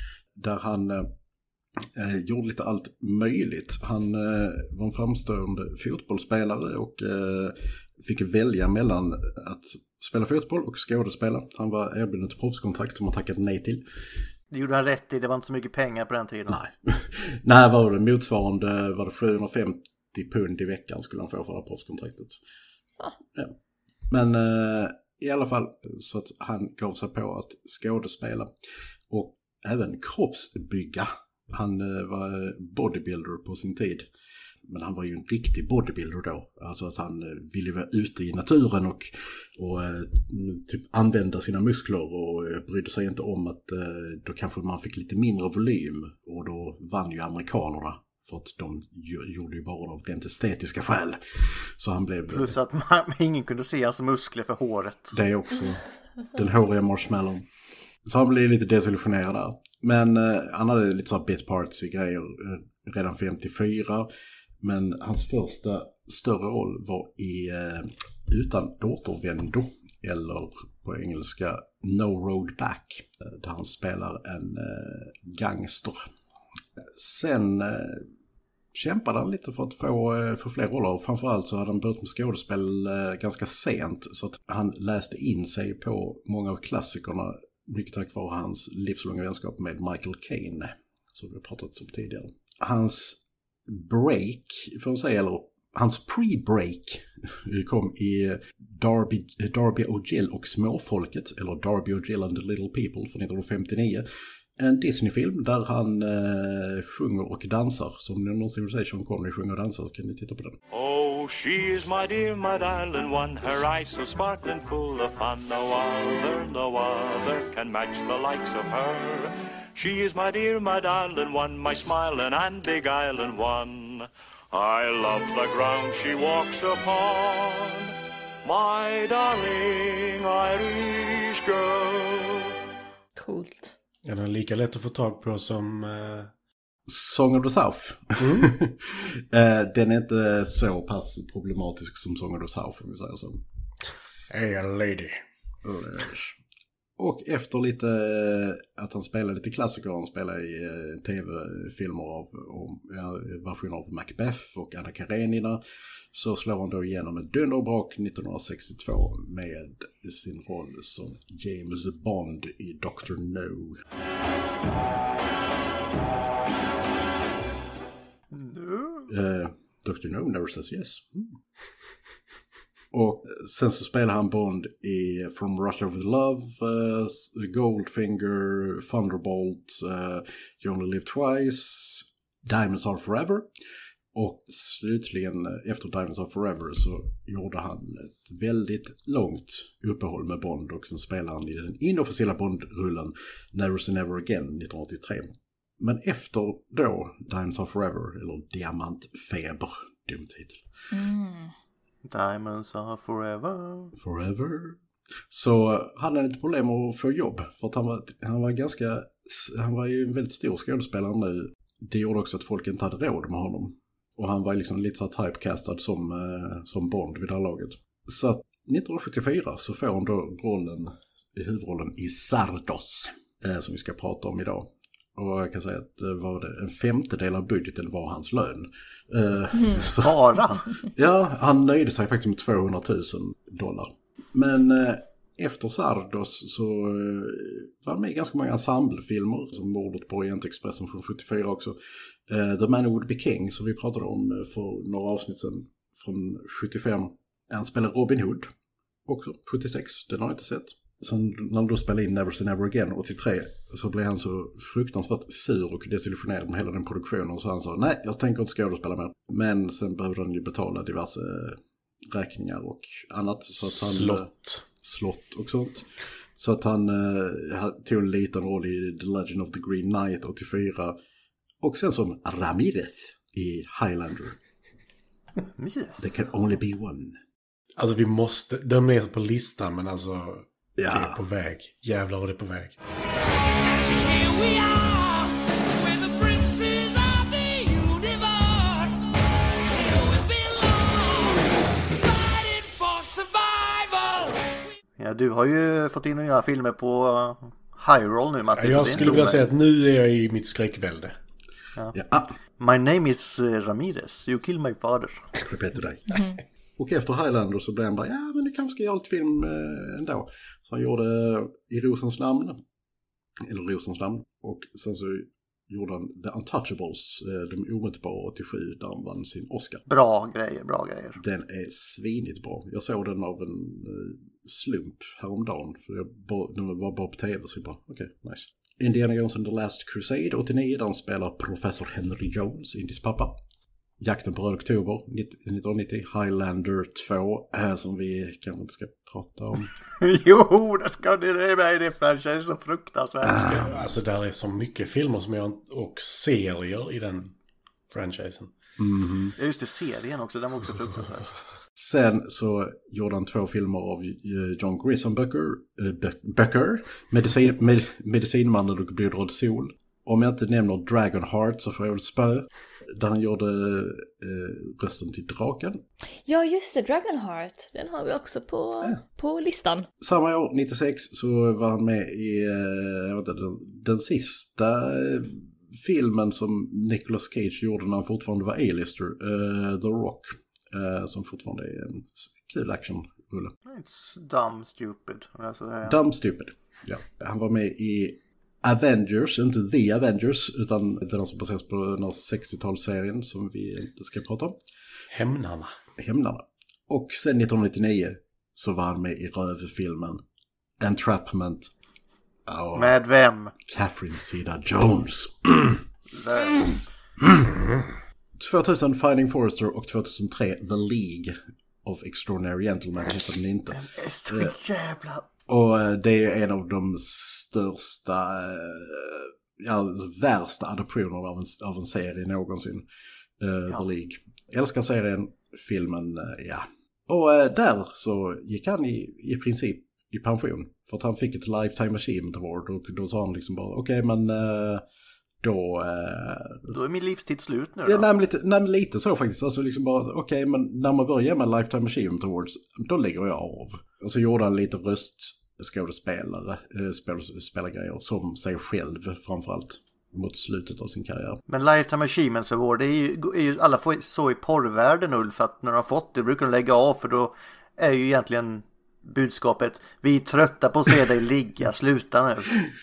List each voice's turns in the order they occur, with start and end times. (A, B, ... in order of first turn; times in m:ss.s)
0:00.3-0:01.1 A
0:01.8-0:13.8 A
0:14.5-0:16.6 B
0:16.5-0:22.4 A
0:24.1-0:28.5 A
0:29.1-0:34.1 A
0:34.6-0:52.6 A
0:52.3-0:55.2 B
0:55.1-0:55.8 A
0:56.3-0:57.4 A
0:58.0-1:04.1 A
1:04.6-1:16.1 A
1:16.8-1:18.1 A
1:18.7-1:44.0 A
1:44.6-1:50.6 A
1:50.7-2:07.9 C
2:08.4-2:12.5 C
2:13.2-2:13.7 D
2:14.0-2:16.3 E
2:16.9-2:23.4 A
2:18.2-2:18.5 E
2:24.3-2:25.2 E
2:25.6-2:26.4 A
2:27.0-2:35.6 A
2:36.1-2:43.8 A
2:48.3-2:49.1 B
2:49.1-2:51.4 A
2:52.9-3:03.5 A
3:04.1-3:20.6 A
3:20.9-3:21.5 D
3:22.0-3:23.9 B
3:24.0-4:01.8 A
3:49.9-3:50.7 B
4:02.3-4:08.5 A
4:09.0-4:24.3 A
4:23.6-4:24.6 E
4:24.8-4:31.0 A
4:31.6-4:34.4 A
4:35.6-4:36.1 B
4:36.0-4:37.2 A
4:37.8-4:42.8 E
4:40.8-4:41.2 A
4:43.8-4:45.3 F
4:44.4-4:45.1 C
4:45.8-4:48.9 C
4:45.8-4:48.5 F
4:49.7-4:51.4 F
4:50.3-4:50.7 C
4:52.1-4:54.1 C
4:55.0-4:59.5 B
4:58.6-5:01.1 E
5:01.9-5:02.3 A
5:02.6-5:05.3 B
5:05.4-5:06.2 A
5:06.8-5:12.6 A
5:13.4-5:19.8 A
5:19.9-5:21.2 B
5:21.2-5:33.3 A
5:34.0-5:39.7 A
5:40.0-5:43.6 B
5:43.2-5:43.7 A
5:43.4-5:47.3 E
5:47.9-5:48.5 E
5:48.8-5:49.4 A
5:49.4-5:51.2 B
5:51.8-6:05.8 A
6:06.2-6:09.9 D
6:10.0-6:23.5 A
6:23.6-6:26.0 B
6:25.8-6:34.6 A
6:35.1-6:35.8 E
6:36.0-6:40.2 A
6:40.8-6:41.7 A
6:42.5-6:43.0 A
6:42.8-6:43.5 B
6:43.6-6:45.8 A
6:46.1-6:46.8 B
6:47.2-6:47.6 A
6:48.4-6:54.5 A
6:53.7-6:55.2 B
6:55.5-7:02.8 A
7:03.4-7:14.8 A
7:15.4-7:16.7 A
7:16.7-7:18.1 B
7:17.8-7:31.4 A
7:31.5-7:42.5 B